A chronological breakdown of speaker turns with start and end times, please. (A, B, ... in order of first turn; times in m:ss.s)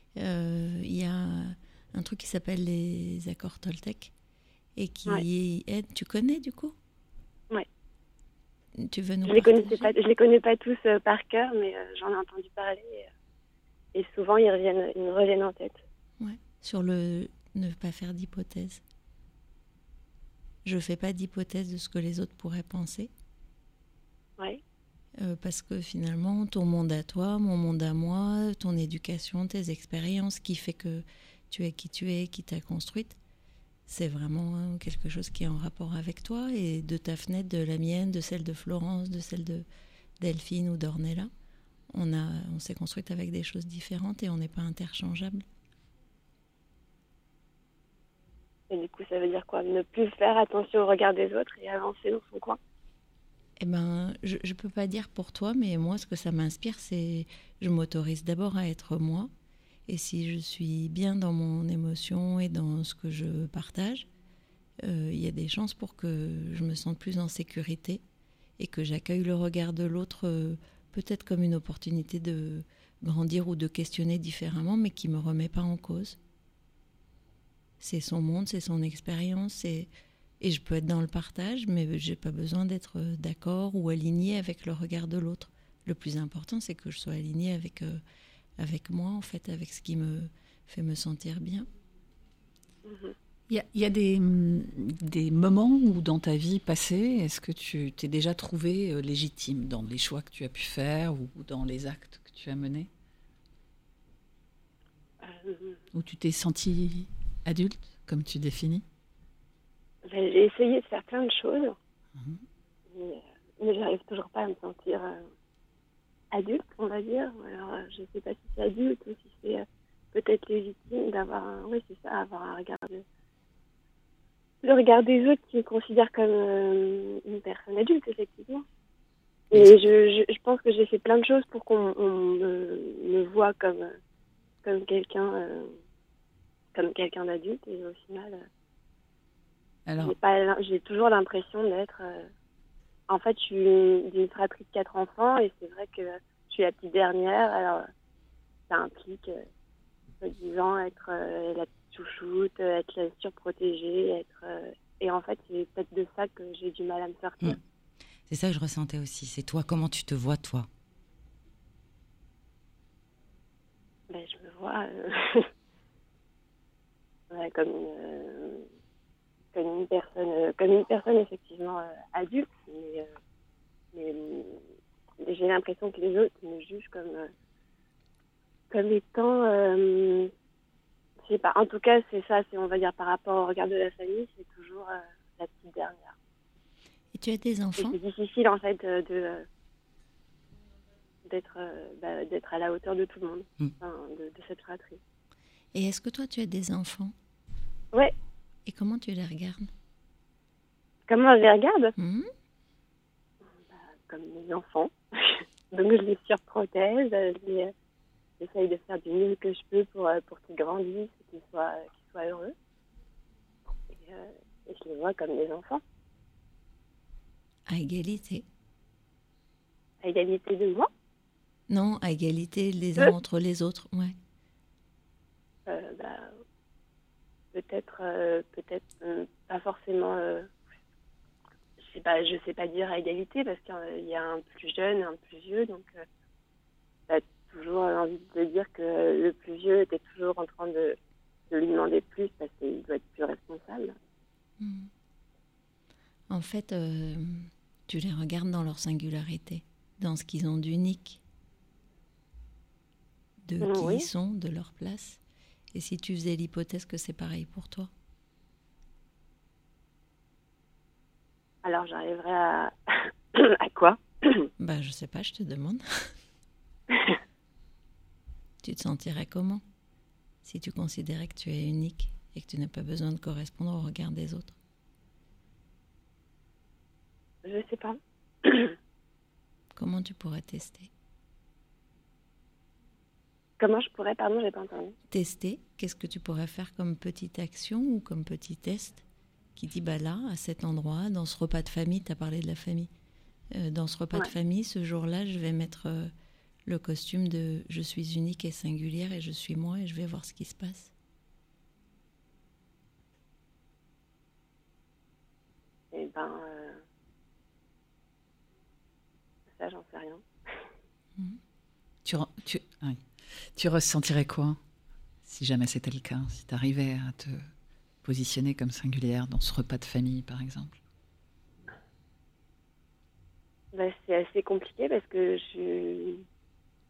0:00.2-0:04.1 A
0:04.8-0:06.8 A
0:08.8-0:09.9 A
0:09.2-0:13.1 B
0:13.9-0:15.8 B
0:16.2-0:18.8 A
0:20.6-0:23.1 A
0:25.2-0:33.2 A
0:33.9-0:39.7 A
0:40.2-0:41.3 A
0:41.9-0:45.4 A
0:48.7-0:52.6 B
0:53.6-0:59.3 A
0:59.9-1:04.1 A
1:04.8-1:08.0 A
1:08.6-1:16.2 A
1:17.8-1:19.9 A
1:20.4-1:28.0 A
1:28.6-1:31.7 A
1:32.8-1:33.2 B
1:33.5-1:42.9 C
1:45.2-1:45.8 B
1:45.9-1:48.8 C
1:50.1-1:51.8 B
1:52.2-1:52.4 C
1:52.9-1:55.2 B
1:56.3-2:03.0 B
2:04.6-2:08.6 B
2:09.5-2:13.9 B
2:14.6-2:15.7 B
2:16.7-2:18.4 B
2:19.9-2:20.2 C
2:20.0-2:22.3 B
2:23.1-2:27.9 B
2:28.7-2:29.4 B
2:30.2-2:37.6 B
2:38.3-2:40.7 D
2:44.1-2:45.5 B
2:47.3-2:48.6 B
2:49.5-2:53.1 B
2:53.9-2:54.6 B
2:55.2-2:57.3 B
2:58.7-3:00.3 B
3:01.3-3:06.2 B
3:07.1-3:08.0 A
3:07.8-3:09.5 B
3:11.2-3:15.0 B
3:15.7-3:17.1 A
3:18.7-3:19.7 A
3:21.1-3:21.9 B
3:22.0-3:22.3 A
3:23.7-3:27.7 B
3:28.4-3:32.5 B
3:33.9-3:35.8 B
3:37.7-3:38.4 A
3:40.0-3:40.9 B
3:41.7-3:44.2 A
3:45.7-3:46.3 B
3:47.5-3:50.5 B
3:51.8-3:56.0 B
3:57.1-4:01.0 B
4:01.5-4:03.9 B
4:04.6-4:04.9 A
4:06.3-4:11.2 A
4:13.4-4:15.2 A
4:13.6-4:14.1 B
4:15.7-4:17.9 A
4:21.6-4:22.8 B
4:23.3-4:24.5 B
4:24.6-4:26.1 A
4:28.6-4:29.6 A
4:30.4-4:34.6 A
4:37.4-4:38.8 B
4:39.8-4:40.9 A
4:43.6-4:45.0 B
4:45.1-4:49.0 A
4:49.6-4:52.9 A
4:53.5-4:56.1 A
4:56.7-5:00.9 A
5:05.9-5:06.8 B
5:09.5-5:10.2 B
5:12.0-5:13.0 C
5:13.5-5:14.6 C
5:15.2-5:17.5 C
5:18.0-5:20.8 C
5:23.7-5:26.2 B